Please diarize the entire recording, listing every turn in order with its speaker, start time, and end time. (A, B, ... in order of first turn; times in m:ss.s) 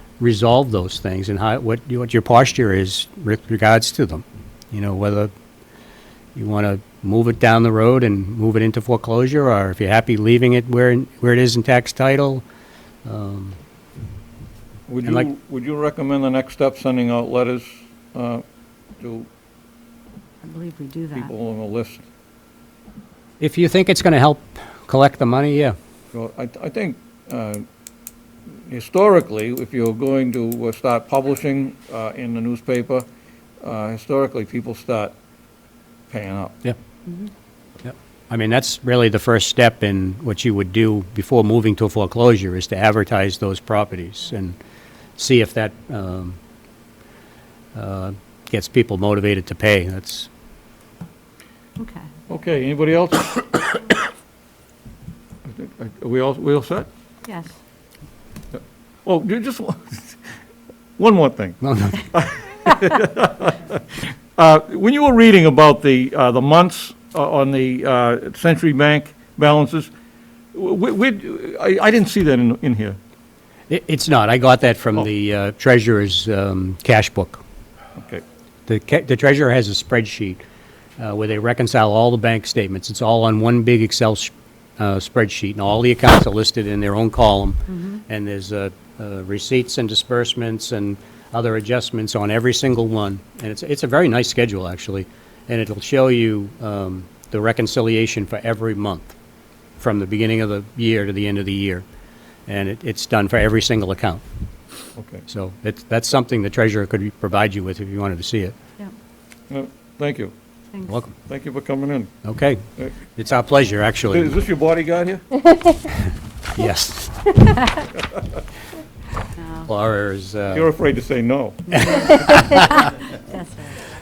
0:00.2-0:05.3 A
0:06.4-0:12.4 A
0:13.0-0:13.6 A
0:14.9-0:18.4 B
0:19.0-0:19.3 B
0:20.4-0:21.3 C
0:21.2-0:22.0 B
0:23.4-0:25.8 A
0:26.1-0:27.6 B
0:28.6-0:33.1 B
0:33.6-0:35.2 B
0:36.1-0:36.6 B
0:37.8-0:44.6 A
0:45.2-0:46.4 A
0:47.7-0:50.3 A
0:51.8-0:52.1 C
0:52.3-0:53.9 B
0:55.4-0:56.9 B
0:57.3-0:57.6 C
0:58.5-1:00.2 B
1:01.0-1:01.6 B
1:01.6-1:02.0 A
1:02.1-1:09.9 B
1:10.5-1:13.0 B
1:13.7-1:17.4 A
1:18.0-1:18.2 B
1:18.7-1:20.4 A
1:21.0-1:39.2 A
1:27.7-1:28.0 C
1:39.8-1:41.9 A
1:42.5-1:44.2 A
1:45.0-1:45.2 B
1:45.3-1:48.6 A
1:49.5-1:50.3 B
1:50.7-1:51.0 C
1:51.2-1:52.1 B
1:52.2-1:54.3 A
1:54.1-1:55.3 B
1:56.5-1:57.5 A
1:59.4-1:59.7 C
1:59.7-2:00.6 A
2:00.5-2:02.4 B
2:01.8-2:03.0 A
2:02.6-2:03.8 C